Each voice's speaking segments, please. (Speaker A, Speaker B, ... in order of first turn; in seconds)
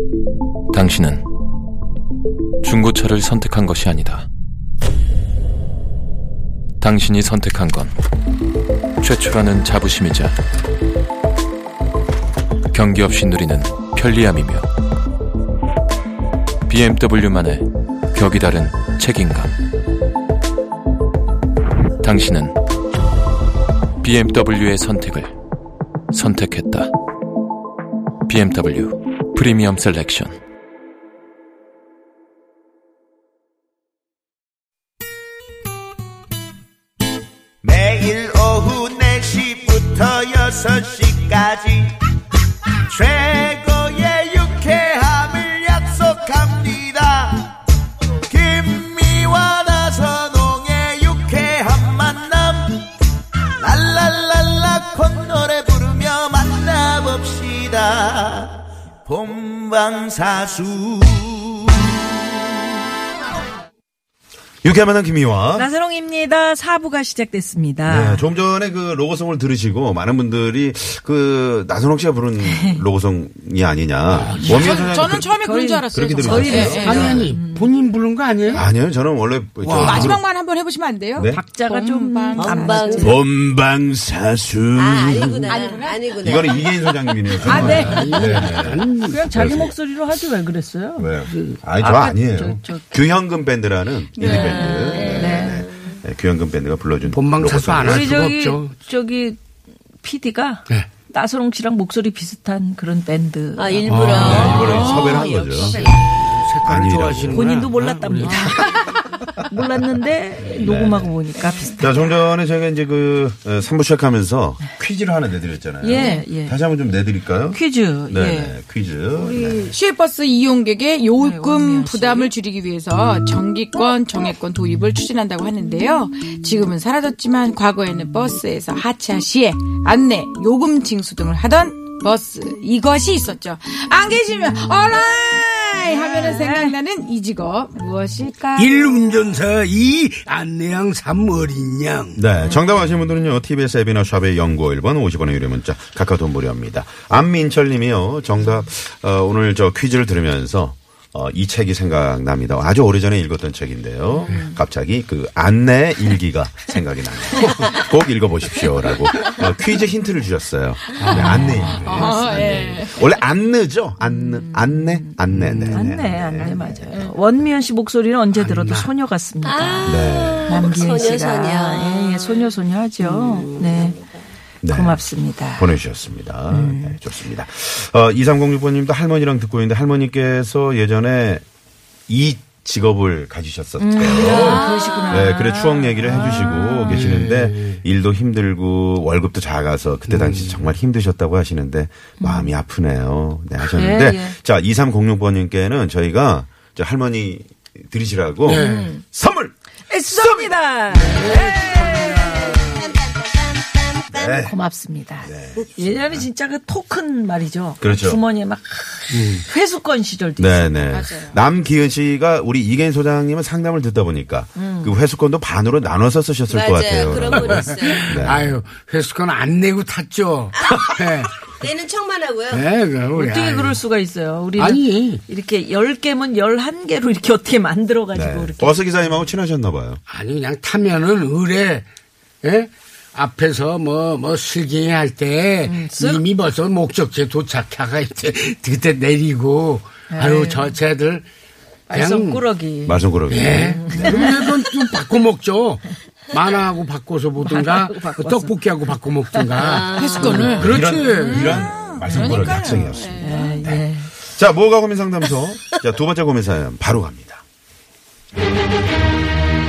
Speaker A: 0.7-1.2, 2.6-4.3, 6.8-8.0, 9.0-10.3, 12.7-14.7, 16.7-19.5, 22.0-22.6, 24.0-25.3, 26.1-26.9, 28.3-30.4
Speaker B: 37.6-41.9, 42.9-47.5, 48.3-52.8, 53.6-58.5, 59.1-61.6
Speaker C: 64.6-65.7, 67.9-75.3, 75.9-77.2, 78.5-80.2, 83.0-89.7, 91.0-98.2, 104.1-105.8, 106.5-107.6, 110.5-111.1, 111.8-119.7, 142.2-166.6, 169.8-170.5, 174.6-175.0, 175.5-181.4, 182.1-201.4, 204.1-204.6, 205.2-206.3, 207.8-208.2, 210.4-218.5, 228.1-230.0, 242.8-243.7, 250.3-257.4
Speaker D: 65.5-68.2, 72.4-72.8, 74.4-74.7, 75.2-77.7, 81.3-83.2, 87.5-88.0, 89.1-91.1, 91.8-93.0, 94.2-95.7, 97.8-99.4, 100.0-105.2, 107.3-112.1, 115.8-116.6, 117.5-118.6, 121.2-122.3, 135.8-136.8, 154.1-154.6, 164.0-165.2, 165.7-173.9, 174.7-175.8, 176.5-177.0, 183.8-187.0, 192.2-192.6, 193.7-194.3, 198.5-199.0, 199.9-202.9, 204.4-210.7, 214.6-215.0, 223.2-229.2, 235.6-236.2, 240.1-240.8, 241.9-244.5, 247.4-248.5, 249.3-249.6, 250.2-250.4, 253.1-254.1
Speaker E: 74.1-75.0, 76.8-78.7, 79.6-80.1, 87.4-89.3, 91.2-91.6, 97.1-98.8, 103.8-104.8, 105.5-108.5, 138.6-142.3, 161.0-162.2, 165.3-165.9, 168.3-168.9, 186.9-187.8, 190.0-190.7, 198.4-198.9, 201.1-202.3, 209.1-209.4, 217.3-221.4, 222.5-223.8, 224.6-225.2, 230.1-231.9, 232.4-241.2, 241.9-242.4, 243.3-251.7
Speaker F: 74.5-77.3, 79.7-83.1, 85.2-86.1, 87.5-88.7, 94.2-95.1, 104.2-105.2, 119.2-138.9, 160.9-163.0, 210.9-211.4, 249.9-253.7
Speaker G: 82.3-83.2, 84.8-87.2, 88.0-88.4, 94.3-96.0, 103.6-106.4, 166.4-166.8, 169.4-174.2, 184.1-185.3, 202.2-204.5, 216.5-218.2, 220.6-220.9, 221.6-222.6, 249.5-250.6